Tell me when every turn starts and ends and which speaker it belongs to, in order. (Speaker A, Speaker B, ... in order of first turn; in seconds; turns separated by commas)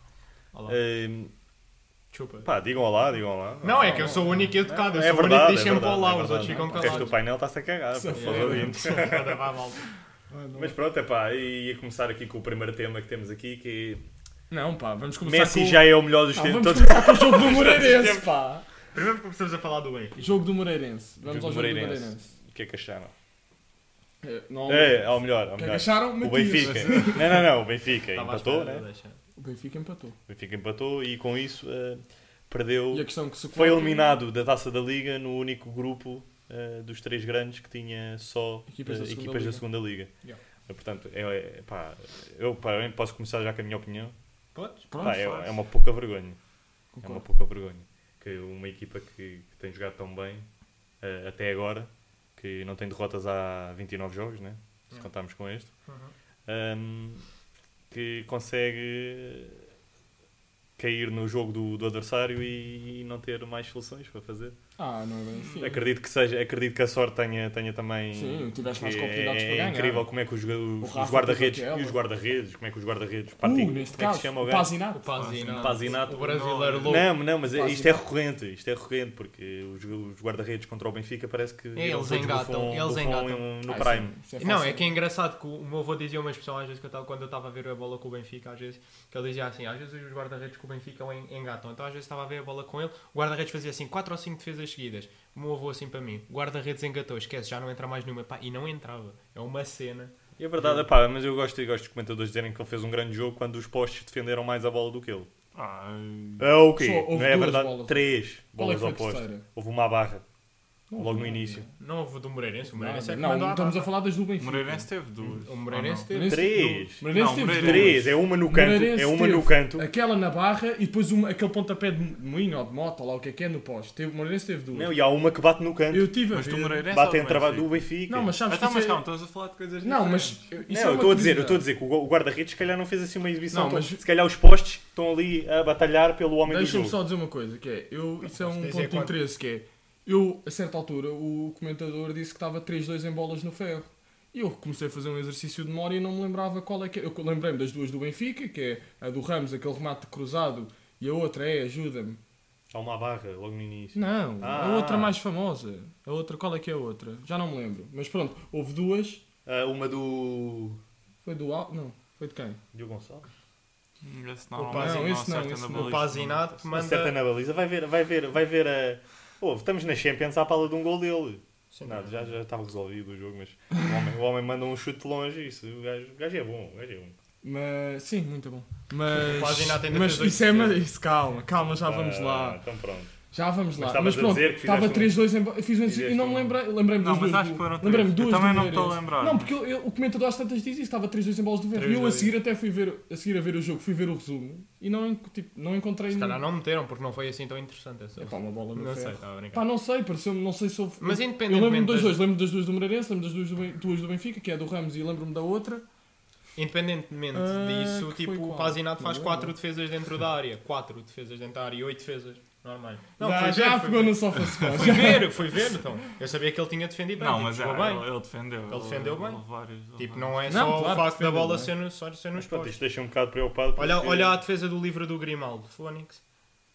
Speaker A: 0.7-1.3, Speaker B: 2.1-2.5, Speaker A: 2.4-9.4, Speaker B: 3.6-7.2, Speaker C: 3.8-4.3, Speaker C: 6.4-7.2, Speaker C: 7.9-8.9, Speaker B: 8.1-9.8, Speaker C: 10.3-10.7, Speaker A: 10.5-14.0, Speaker C: 14.5-18.7, Speaker A: 15.2-18.2, Speaker B: 18.9-20.3, Speaker C: 20.2-22.3, Speaker A: 21.2-23.1, Speaker C: 24.2-27.5, Speaker A: 24.7-28.8, Speaker D: 26.6-27.3, Speaker B: 28.1-29.2, Speaker C: 29.4-30.2, Speaker A: 30.3-40.1, Speaker C: 32.9-34.2, Speaker C: 38.7-39.6, Speaker A: 40.7-44.1, Speaker B: 44.5-44.9, Speaker C: 44.9-45.5, Speaker A: 45.0-46.4, Speaker C: 46.9-47.2, Speaker A: 47.0-50.5, Speaker A: 51.0-55.7, Speaker B: 55.9-56.1, Speaker A: 56.5-57.2, Speaker A: 57.9-59.6, Speaker A: 60.8-64.5, Speaker C: 64.8-65.8, Speaker D: 65.4-65.7, Speaker A: 65.6-74.7, Speaker C: 68.1-70.1, Speaker C: 70.8-72.0, Speaker C: 73.4-75.1, Speaker B: 74.9-77.1, Speaker D: 75.2-77.0, Speaker A: 75.5-84.2, Speaker C: 77.4-78.0, Speaker B: 81.8-83.5, Speaker C: 83.7-84.9, Speaker B: 84.4-100.8, Speaker A: 100.4-105.3, Speaker D: 105.5-106.5, Speaker A: 106.4-110.2, Speaker C: 106.8-109.4, Speaker C: 110.9-111.7, Speaker A: 110.9-111.7, Speaker B: 111.8-113.9, Speaker C: 112.7-114.9, Speaker D: 114.4-116.1, Speaker B: 115.4-116.4, Speaker C: 116.1-124.9, Speaker A: 116.2-119.9, Speaker D: 117.0-118.1, Speaker A: 124.7-126.1, Speaker C: 125.9-126.9, Speaker D: 126.3-127.7, Speaker A: 126.9-128.3, Speaker C: 128.1-129.0, Speaker D: 128.4-130.5, Speaker C: 129.8-131.7, Speaker A: 130.7-137.0, Speaker C: 133.5-134.0, Speaker C: 136.4-152.2, Speaker B: 138.3-139.2, Speaker A: 152.7-155.2, Speaker C: 153.9-159.2, Speaker A: 159.4-160.8, Speaker C: 161.2-162.6, Speaker A: 162.7-163.3, Speaker D: 164.0-166.7, Speaker B: 164.6-165.1, Speaker C: 164.6-166.0, Speaker B: 165.7-167.2, Speaker A: 166.7-177.2, Speaker B: 171.7-172.2, Speaker C: 177.4-182.6, Speaker B: 179.1-180.8, Speaker A: 181.7-183.1, Speaker C: 183.3-196.4, Speaker A: 183.8-185.3, Speaker A: 185.8-186.6, Speaker D: 186.9-189.5, Speaker B: 191.7-192.3, Speaker B: 196.1-199.6, Speaker C: 198.2-205.8, Speaker B: 201.0-202.2, Speaker B: 206.6-218.1, Speaker C: 207.3-209.5, Speaker C: 213.2-215.4, Speaker D: 217.2-220.8, Speaker B: 218.7-219.4, Speaker B: 219.9-222.8, Speaker C: 220.5-221.7, Speaker A: 222.3-224.4, Speaker B: 223.8-226.2